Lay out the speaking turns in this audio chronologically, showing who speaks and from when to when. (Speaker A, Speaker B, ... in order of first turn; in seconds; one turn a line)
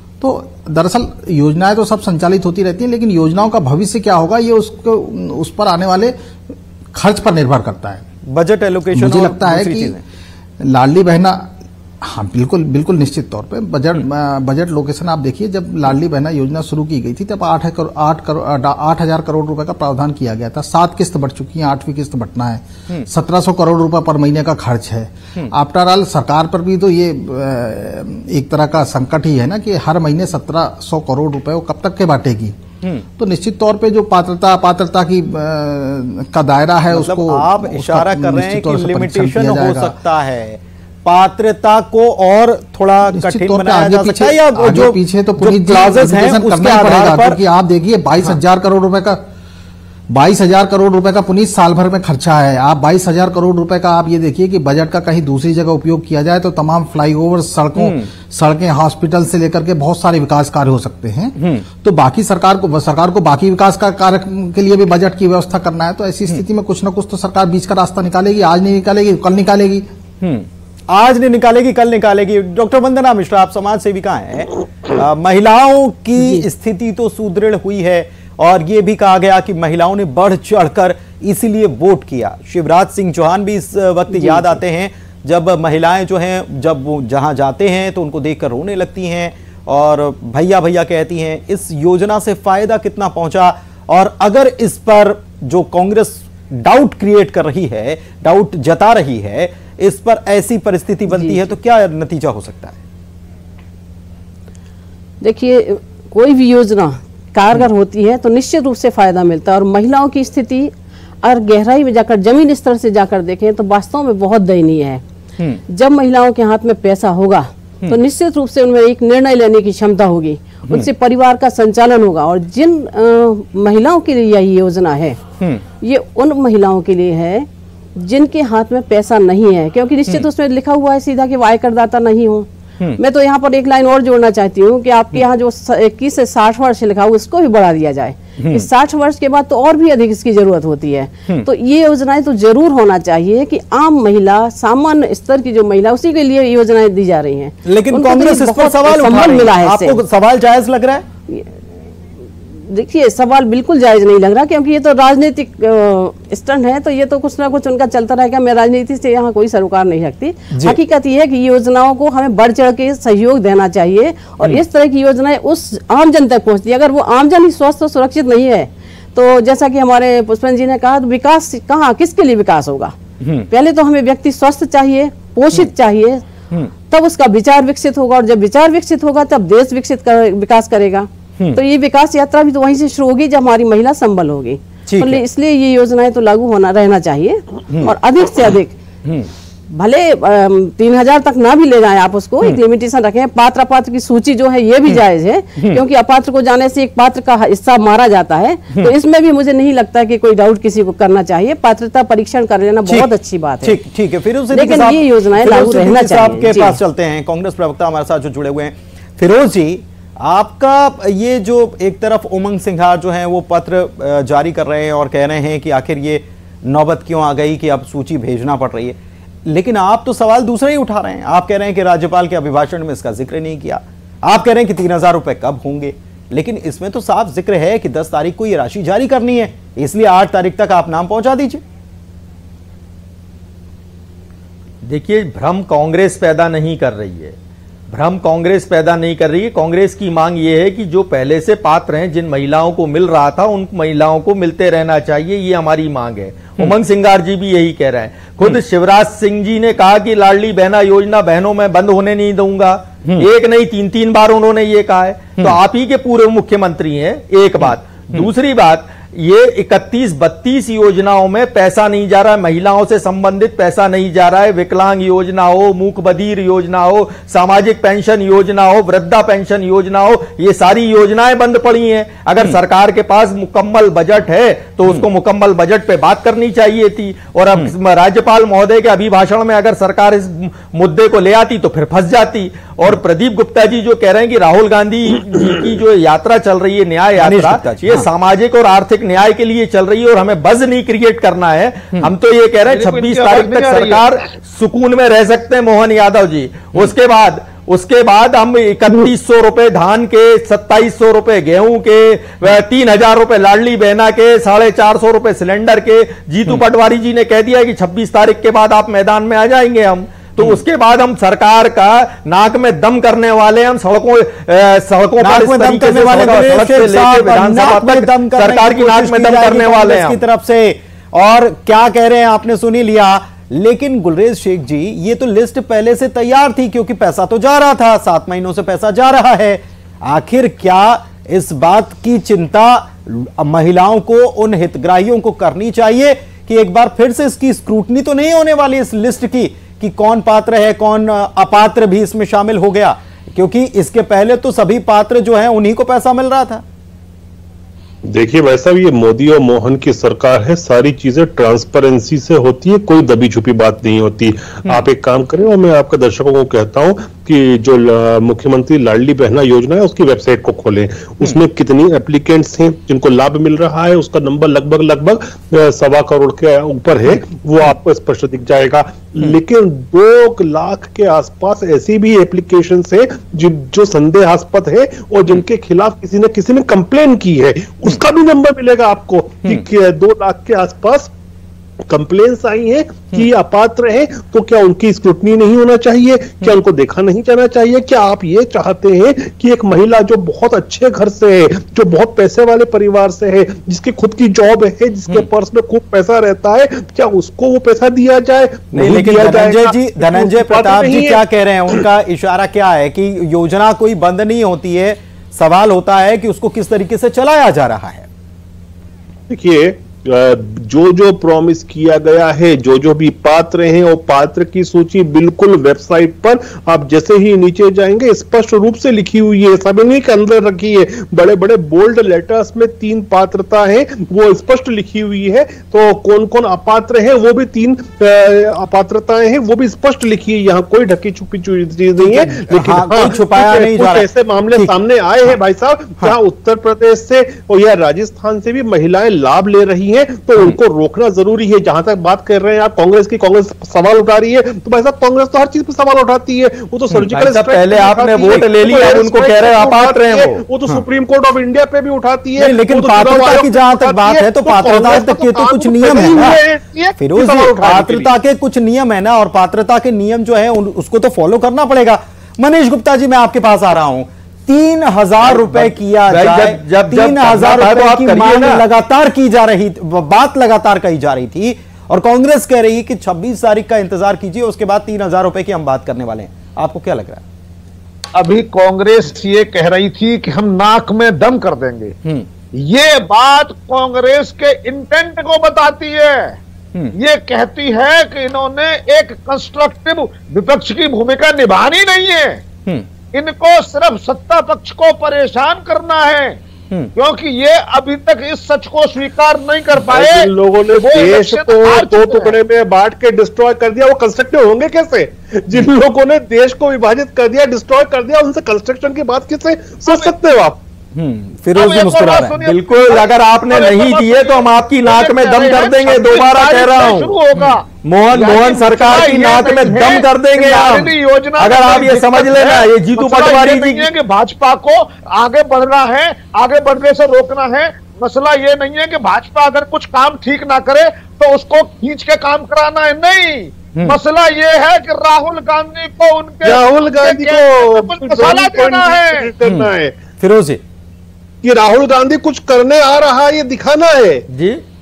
Speaker A: 0.2-6.2
Speaker A: 6.9-8.1
Speaker B: 8.2-10.0
Speaker A: 8.9-10.0
Speaker A: 10.6-32.6
Speaker A: 33.2-40.0
Speaker B: 36.9-47.4
Speaker A: 43.1-49.2
Speaker A: 50.1-69.9
Speaker B: 57.8-58.1
Speaker B: 61.4-61.6
Speaker B: 70.2-102.8
Speaker C: 84.1-84.5
Speaker C: 105.2-110.7
Speaker C: 111.2-115.0
Speaker C: 115.7-125.2
Speaker C: 125.8-150.0
Speaker B: 138.4-138.7
Speaker B: 147.7-151.1
Speaker C: 151.3-151.6
Speaker C: 152.7-173.0
Speaker B: 160.5-160.8
Speaker B: 173.2-173.5
Speaker C: 173.5-176.2
Speaker C: 176.9-188.8
Speaker B: 184.9-185.2
Speaker C: 189.7-203.8
Speaker B: 195.6-195.8
Speaker B: 203.6-231.6
Speaker C: 204.5-206.8
Speaker D: 234.8-237.4
Speaker D: 237.9-320.2
Speaker B: 257.6-258.3
Speaker B: 287.2-288.1
Speaker E: 292.7-294.0
Speaker B: 315.2-346.6
Speaker F: 348.1-381.1
Speaker F: 381.9-401.2
Speaker B: 398.7-408.1
Speaker F: 409.3-458.1
Speaker B: 432.0-434.7
Speaker D: 447.1-450.4
Speaker B: 452.4-456.4
Speaker B: 457.0-477.2
Speaker D: 465.3-468.6
Speaker E: 478.1-482.0
Speaker E: 482.5-486.4
Speaker E: 487.0-492.4
Speaker E: 493.1-496.4
Speaker E: 497.0-502.4
Speaker F: 499.9-510.6
Speaker E: 509.9-510.1
Speaker B: 510.9-512.4
Speaker E: 511.5-539.3
Speaker D: 512.5-517.2
Speaker D: 517.8-523.9
Speaker F: 536.4-539.9
Speaker B: 539.4-540.6
Speaker F: 541.4-544.2
Speaker D: 544.3-544.6